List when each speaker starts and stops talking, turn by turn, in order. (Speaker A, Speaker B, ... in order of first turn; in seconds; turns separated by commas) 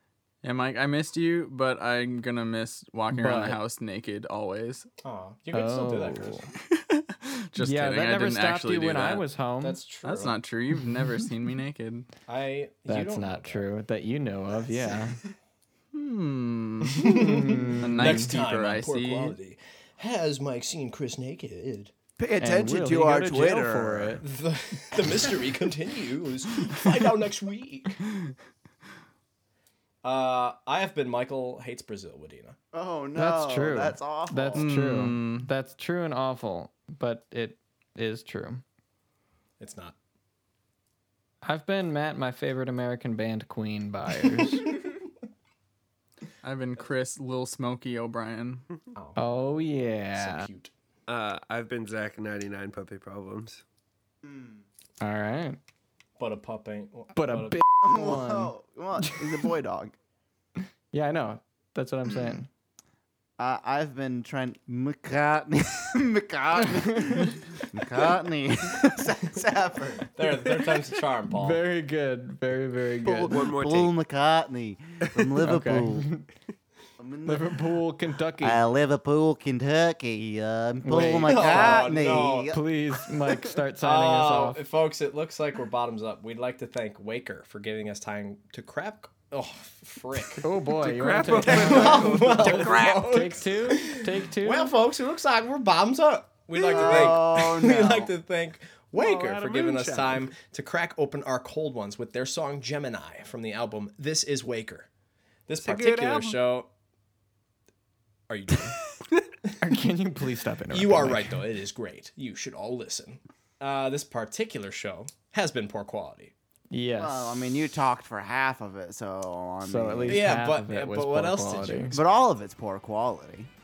Speaker A: 0.4-4.9, Speaker B: 3.1-3.6, Speaker C: 5.0-6.4, Speaker B: 5.5-6.5, Speaker A: 6.7-9.2, Speaker B: 7.6-9.8, Speaker C: 9.6-10.4, Speaker A: 10.0-12.1, Speaker C: 12.3-13.7, Speaker B: 12.9-15.2, Speaker D: 14.7-14.9, Speaker A: 15.9-19.4, Speaker C: 16.8-21.9, Speaker B: 17.0-18.3, Speaker D: 22.2-24.2, Speaker B: 22.4-24.2, Speaker C: 24.2-28.0, Speaker C: 30.0-32.6, Speaker D: 32.7-34.7, Speaker B: 33.1-38.6, Speaker A: 34.5-35.5, Speaker C: 39.6-40.0, Speaker B: 41.4-44.8, Speaker A: 46.4-48.7, Speaker C: 48.9-49.3, Speaker B: 49.1-50.5, Speaker C: 50.1-50.7, Speaker E: 51.1-53.6, Speaker D: 54.2-54.6, Speaker B: 55.0-55.6, Speaker C: 56.2-57.6, Speaker B: 57.1-59.3, Speaker D: 57.8-59.9, Speaker B: 60.6-62.5, Speaker D: 62.0-62.4, Speaker D: 63.4-70.1, Speaker B: 66.9-67.3, Speaker C: 70.1-71.6, Speaker B: 71.3-73.3, Speaker D: 73.0-76.1, Speaker E: 73.2-73.9, Speaker E: 75.0-75.3, Speaker B: 75.4-76.3, Speaker D: 77.0-77.7, Speaker B: 77.2-78.6, Speaker D: 78.4-82.6, Speaker B: 80.8-81.9, Speaker C: 80.9-82.5, Speaker B: 82.5-84.6, Speaker C: 83.8-90.4, Speaker B: 90.4-94.7, Speaker E: 90.8-92.9, Speaker C: 91.3-104.9, Speaker D: 91.5-93.1, Speaker D: 96.7-98.1, Speaker E: 98.9-100.3, Speaker C: 105.5-106.7, Speaker E: 105.6-106.4, Speaker C: 108.3-108.8, Speaker B: 109.6-111.4, Speaker C: 110.7-116.3, Speaker B: 116.7-117.5, Speaker D: 117.0-120.3, Speaker B: 119.7-122.0, Speaker C: 120.1-122.0, Speaker D: 121.9-123.5